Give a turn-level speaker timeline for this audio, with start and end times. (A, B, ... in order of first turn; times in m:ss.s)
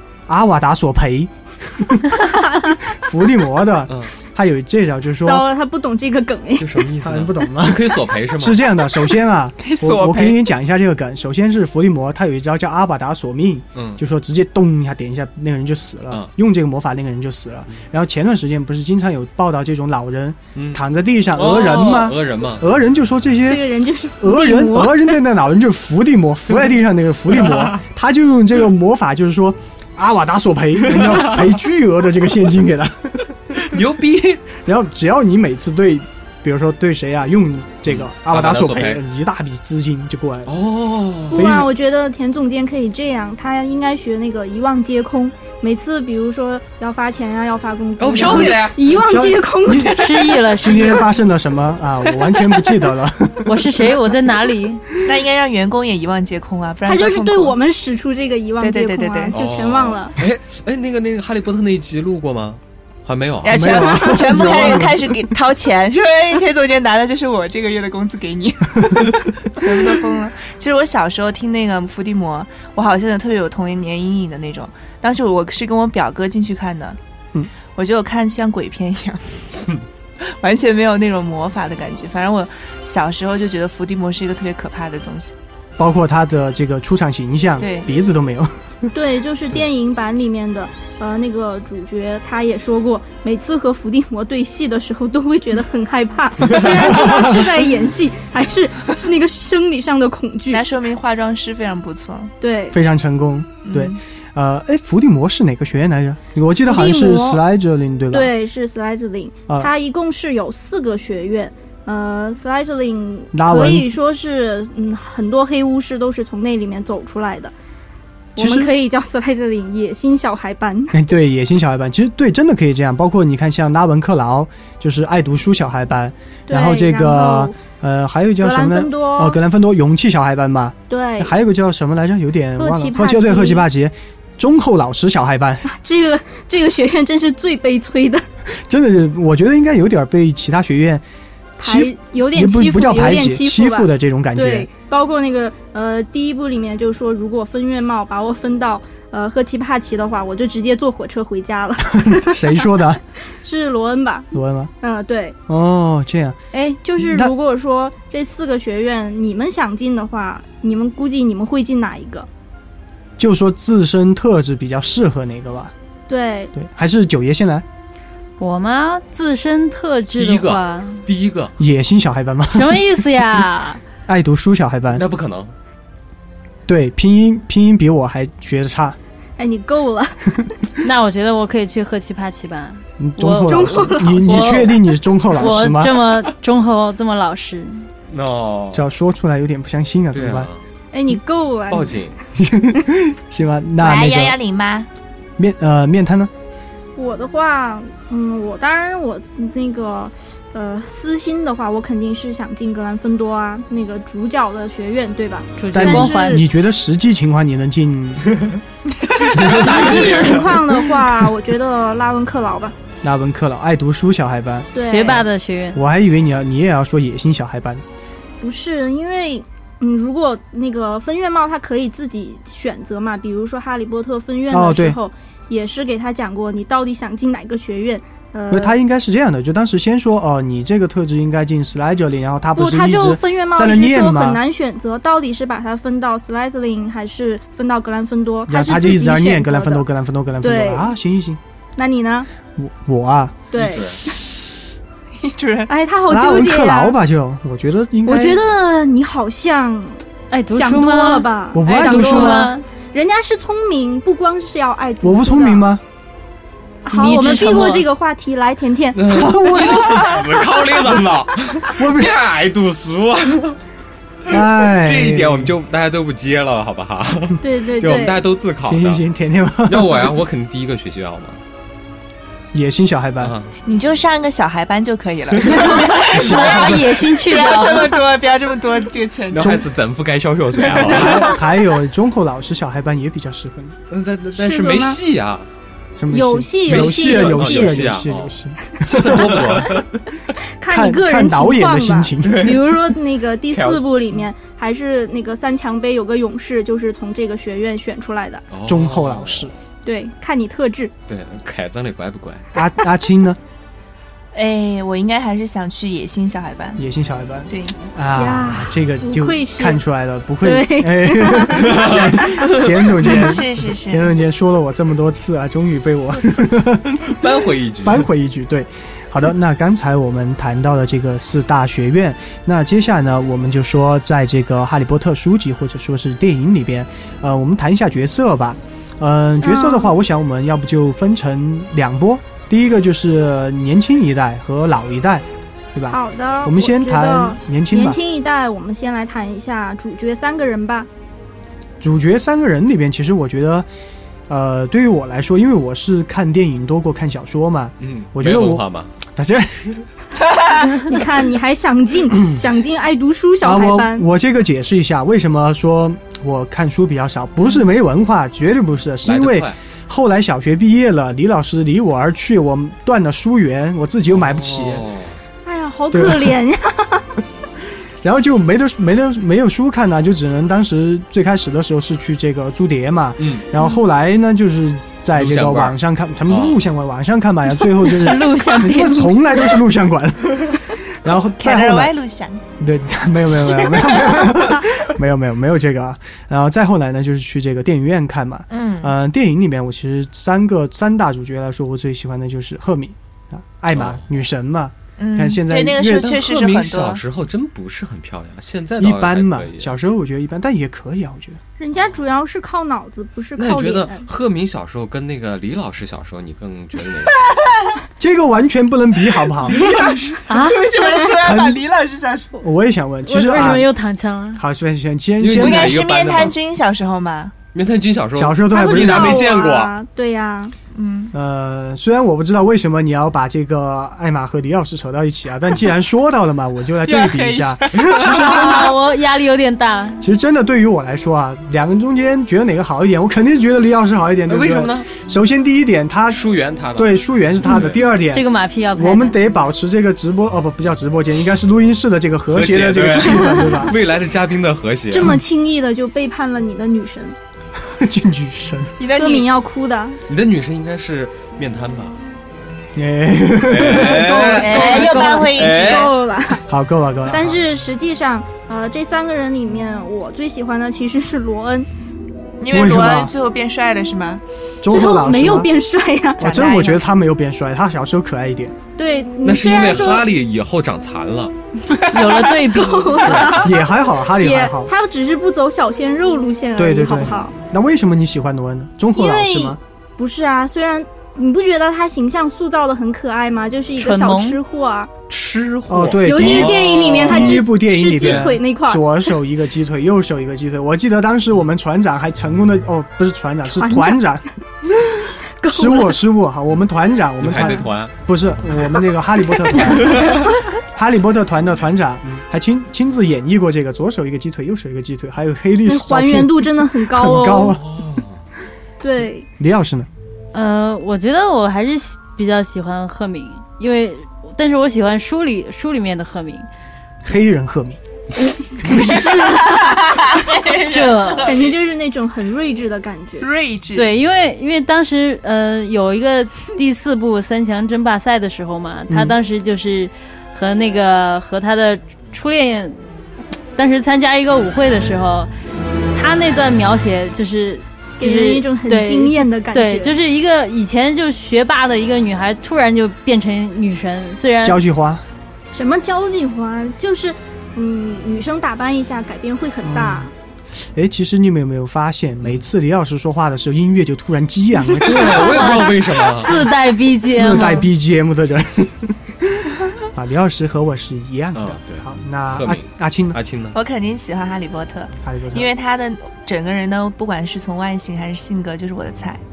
0:00.3-0:05.4 A
0:02.3-0:02.8 B
0:03.9-0:04.1 C
0:05.2-0:06.8 B
0:06.6-0:09.0 C
0:07.0-0:23.6 A
0:09.6-0:10.4 D
0:13.8-0:14.0 C
0:20.6-0:20.8 C
0:21.4-0:22.7 C
0:23.5-0:25.2 B
0:24.2-0:33.3 A
0:27.4-0:27.8 C
0:30.9-0:31.5 C
0:33.6-0:34.4 C
0:34.6-0:40.5 A
0:37.9-0:39.0 C
0:40.5-0:41.5 C
0:41.3-0:51.0 B
0:41.3-0:41.7 A
0:48.0-0:48.8 C
0:48.2-0:50.1 A
0:49.9-0:51.0 E
0:50.6-0:53.6 A
0:53.4-0:54.8 E
0:55.0-0:57.6 D
0:56.8-1:00.2 B
0:58.6-0:59.4 D
0:59.3-1:04.9 C
1:03.4-1:17.0 D
1:03.5-1:05.2 A
1:17.8-1:25.3 D
1:25.8-1:28.5 A
1:27.6-1:27.9 D
1:28.9-1:40.6 B
1:36.9-1:37.4 A
1:40.5-1:42.3 D
1:42.4-1:42.8 B
1:42.7-1:48.3 A
1:43.7-1:44.0 D
1:46.7-1:47.4 B
1:48.1-1:57.5 B
1:53.3-1:53.9 A
1:58.4-2:01.0 B
1:58.4-1:58.7 A
2:00.9-2:15.7 A
2:06.5-2:07.6 B
2:08.4-2:09.4 B
2:10.9-2:11.4 B
2:12.6-2:13.7 B
2:15.7-2:18.2 B
2:18.7-2:21.0 A
2:21.6-2:24.7 A
2:21.6-2:32.7 B
2:32.0-2:33.0 A
2:33.4-2:34.3 B
2:34.3-2:34.7 A
2:34.8-2:35.4 B
2:35.5-2:36.4 A
2:36.5-2:42.3 B
2:37.0-2:37.3 A
2:43.2-2:45.7 A
2:46.1-2:46.5 B
2:46.6-2:47.6 A
2:48.4-2:51.0 E
2:50.2-2:51.6 C
2:51.6-2:53.0 A
2:52.5-2:53.8 E
2:54.1-2:55.0 A
2:54.9-2:55.5 C
2:56.7-2:59.0 A
2:59.4-3:00.4 B
3:00.8-3:07.9 E
3:03.0-3:06.0 A
3:03.4-3:04.8 B
3:08.1-3:08.9 C
3:08.7-3:10.5 A
3:10.1-3:10.6 C
3:10.9-3:12.0 B
3:11.7-3:12.2 C
3:12.4-3:14.4 A
3:13.8-3:14.9 D
3:15.4-3:16.3 A
3:17.0-3:26.4 B
3:25.6-3:26.4 E
3:25.7-3:28.5 A
3:29.2-3:30.8 C
3:29.3-3:32.7 B
3:29.3-3:30.2 A
3:33.0-3:35.2 A
3:34.7-3:35.2 B
3:34.8-3:35.8 E
3:35.8-3:37.8 A
3:38.4-3:48.8 B
3:44.5-3:45.0 A
3:48.5-3:54.4 A
3:52.6-3:59.9 B
3:58.5-4:01.4 A
4:00.4-4:00.9 B
4:01.8-4:02.3 B
4:02.6-4:03.4 A
4:03.5-4:04.2 B
4:03.5-4:04.0 C
4:05.2-4:05.7 D
4:05.7-4:07.0 B
4:06.1-4:08.4 A
4:08.1-4:15.7 B
4:10.3-4:12.6 E
4:11.5-4:12.5 A
4:15.0-4:15.8 A
4:16.8-4:19.1 B
4:16.9-4:17.9 E
4:18.9-4:23.6 C
4:19.1-4:20.4 A
4:21.7-4:22.2 A
4:24.3-4:25.5 A
4:24.3-4:29.0 C
4:27.4-4:28.2 B
4:28.6-4:30.2 A
4:29.6-4:31.4 C
4:32.5-4:33.3 A
4:33.2-4:33.5 C
4:33.6-4:39.6 D
4:35.5-4:37.0 A
4:35.8-4:38.0 E
4:39.3-4:41.4 C
4:39.4-4:39.7 A
4:40.6-4:43.8 A
4:40.8-4:41.2 D
4:43.9-4:45.5 C
4:44.4-4:45.0 B
4:46.0-4:49.8 A
4:46.1-4:47.9 B
4:46.7-4:49.9 C
4:50.6-4:58.4 B
4:50.7-4:52.6 A
4:52.2-4:52.9 C
4:53.5-4:53.8 C
4:58.5-4:59.5 C
4:58.7-4:59.5 A
4:59.8-5:00.9 B
5:01.1-5:02.5 C
5:02.5-5:03.4 A
5:04.3-5:06.8 D
5:06.8-5:17.3 A
5:07.5-5:07.8 D
5:08.2-5:09.8 B
5:10.4-5:11.9 B
5:11.6-5:13.4 C
5:13.0-5:14.1 D
5:17.0-5:18.1 C
5:17.8-5:38.0 A
5:29.4-5:29.9 B
5:35.9-5:40.9 B
5:41.8-5:43.7 A
5:44.3-5:49.8 A
5:47.8-5:48.9 C
5:50.6-5:54.1 B
5:53.4-6:04.9 A
5:59.0-5:59.6 C
6:04.1-6:05.2 C
6:05.4-6:07.1 B
6:05.9-6:06.4 A
6:08.0-6:21.9 A
6:13.2-6:13.5 C
6:15.2-6:15.8 C
6:16.3-6:16.6 C
6:17.6-6:19.6 E
6:21.4-6:22.4 D
6:22.6-6:36.2 A
6:28.5-6:28.9 D
6:33.7-6:34.0 C
6:35.0-6:37.0 D
6:35.8-6:39.8 C
6:38.8-6:41.4 A
6:41.6-6:44.0 B
6:43.4-6:47.2 C
6:47.2-6:47.8 D
6:48.0-6:49.6 A
6:49.5-6:52.4 D
6:49.5-6:50.1 C
6:50.3-6:50.7 E
6:51.2-6:51.6 A
6:52.4-6:53.7 A
6:53.0-6:54.4 E
6:54.4-6:55.9 A
6:55.2-6:56.4 C
6:55.3-6:57.4 D
6:57.5-6:59.7 C
6:58.2-6:59.2 A
6:58.5-7:00.5 B
7:00.7-7:01.1 D
7:01.1-7:08.7 A
7:06.8-7:08.7 D
7:07.9-7:10.0 E
7:10.0-7:16.2 A
7:14.3-7:14.9 C
7:16.1-7:17.8 C
7:16.8-7:23.8 A
7:18.1-7:19.2 E
7:22.3-7:25.2 C
7:23.1-7:23.7 B
7:24.9-7:27.2 B
7:27.6-7:28.8 A
7:28.8-7:29.3 D
7:28.9-7:30.0 B
7:30.1-7:32.0 C
7:32.8-7:34.2 A
7:33.4-7:36.0 C
7:33.8-7:36.4 B
7:34.2-7:35.9 D
7:36.5-7:37.4 A
7:37.1-7:41.7 B
7:42.4-7:44.2 D
7:42.5-7:43.1 A
7:44.6-7:45.5 A
7:44.7-7:46.8 B
7:46.2-7:48.6 A
7:48.8-7:50.1 B
7:49.2-7:51.3 C
7:51.9-7:53.3 E
7:52.5-7:53.6 B
7:53.1-7:53.4 C
7:53.4-7:54.7 A
7:54.1-7:57.3 B
7:56.6-7:59.6 A
7:58.9-8:04.9 B
8:03.8-8:04.4 E
8:05.1-8:07.4 C
8:05.7-8:14.3 A
8:06.0-8:08.9 B
8:08.0-8:08.4 C
8:13.5-8:14.0 B
8:15.4-8:16.0 B
8:15.5-8:27.6 A
8:17.2-8:18.0 C
8:19.8-8:20.2 C
8:25.7-8:27.6 B
8:27.6-8:28.2 C
8:28.8-8:29.3 B
8:29.4-8:29.9 A
8:30.3-8:36.5 E
8:37.0-8:37.8 A
8:38.6-8:40.1 B
8:38.6-8:39.0 A
8:38.7-8:41.5 D
8:40.6-8:41.4 E
8:41.2-8:43.3 B
8:43.2-8:43.9 D
8:43.8-8:52.8 E
8:48.9-8:49.2 A
8:53.6-8:55.3 E
8:55.9-9:04.6 E
8:58.0-9:00.0 B
9:04.4-9:05.0 A
9:05.5-9:10.1 B
9:09.6-9:10.1 A
9:10.7-9:15.6 A
9:14.8-9:16.4 C
9:14.9-9:17.7 E
9:17.1-9:23.2 A
9:21.4-9:23.6 C
9:23.5-9:29.2 D
9:25.0-9:25.5 A